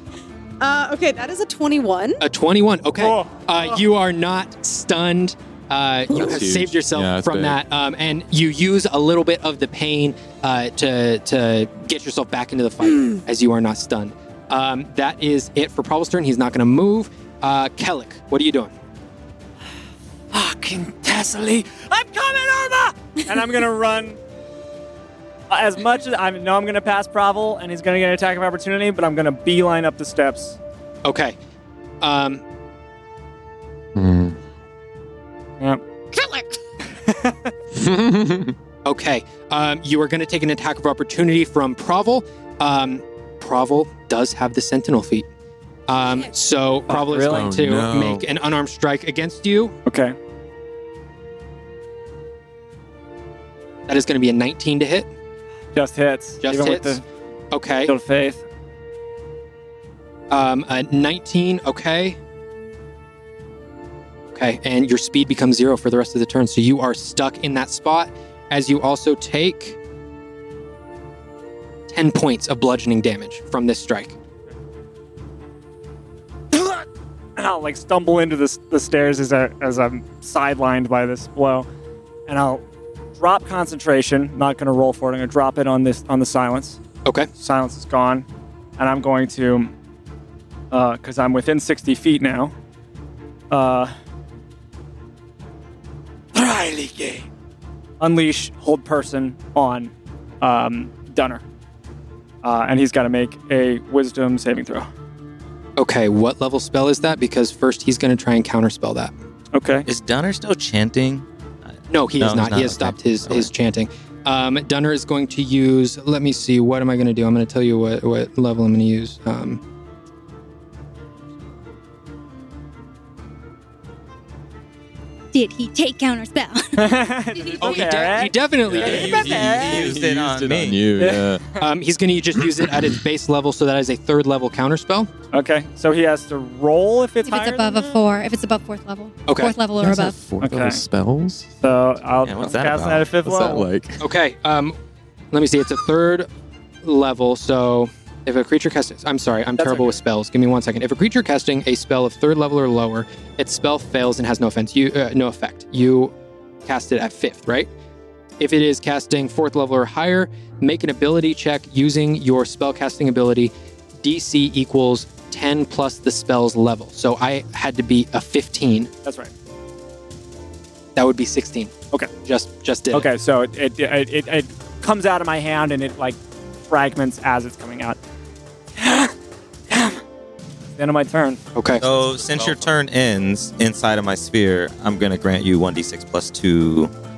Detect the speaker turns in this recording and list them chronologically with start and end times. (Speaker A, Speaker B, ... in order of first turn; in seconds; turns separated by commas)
Speaker A: 0.6-2.2, Speaker B: 2.2-18.7, Speaker C: 3.0-3.8, Speaker D: 6.1-7.6, Speaker A: 12.9-13.2, Speaker C: 20.3-24.2, Speaker C: 25.5-30.6, Speaker B: 31.0-31.4, Speaker B: 32.0-32.4, Speaker D: 33.9-34.4, Speaker A: 36.1-36.5, Speaker C: 37.0-37.5, Speaker D: 37.7-38.5, Speaker B: 38.8-45.3, Speaker B: 45.9-49.8, Speaker A: 45.9-46.3, Speaker C: 46.9-47.5, Speaker D: 47.3-48.3, Speaker C: 49.9-50.2, Speaker B: 53.9-55.1, Speaker C: 55.7-57.0, Speaker B: 56.4-57.9, Speaker C: 57.8-58.4, Speaker B: 60.3-62.2, Speaker B: 64.3-69.8, Speaker B: 71.9-74.2, Speaker C: 76.5-81.7, Speaker C: 82.3-82.6, Speaker C: 83.2-86.8, Speaker B: 87.0-87.3, Speaker C: 87.4-88.3, Speaker C: 88.8-89.7, Speaker C: 90.7-92.5, Speaker C: 93.5-93.9, Speaker C: 96.3-97.3, Speaker C: 98.0-101.4, Speaker C: 102.4-104.9, Speaker B: 105.8-109.1, Speaker C: 109.5-109.9, Speaker E: 109.8-111.3, Speaker B: 111.9-119.6, Speaker E: 112.2-113.5, Speaker F: 125.3-126.9, Speaker C: 126.8-129.2, Speaker B: 127.6-129.9, Speaker D: 128.7-131.4, Speaker E: 128.8-130.8, Speaker C: 130.9-131.7, Speaker B: 131.6-135.1, Speaker D: 132.6-132.9, Speaker C: 135.3-138.1, Speaker F: 137.2-140.2, Speaker B: 139.3-139.6, Speaker D: 139.8-141.8, Speaker C: 140.4-140.8, Speaker C: 141.6-143.7, Speaker E: 142.2-143.0, Speaker D: 143.2-144.0, Speaker B: 144.0-144.8, Speaker B: 145.3-146.3, Speaker B: 146.8-156.1, Speaker C: 149.6-150.0, Speaker B: 156.7-157.7, Speaker B: 158.4-168.9, Speaker C: 169.0-169.3, Speaker B: 170.9-173.1, Speaker C: 172.9-178.0, Speaker C: 178.8-179.1, Speaker C: 179.7-180.0, Speaker C: 180.8-181.4, Speaker B: 181.5-181.8, Speaker E: 181.8-186.9, Speaker D: 182.0-182.7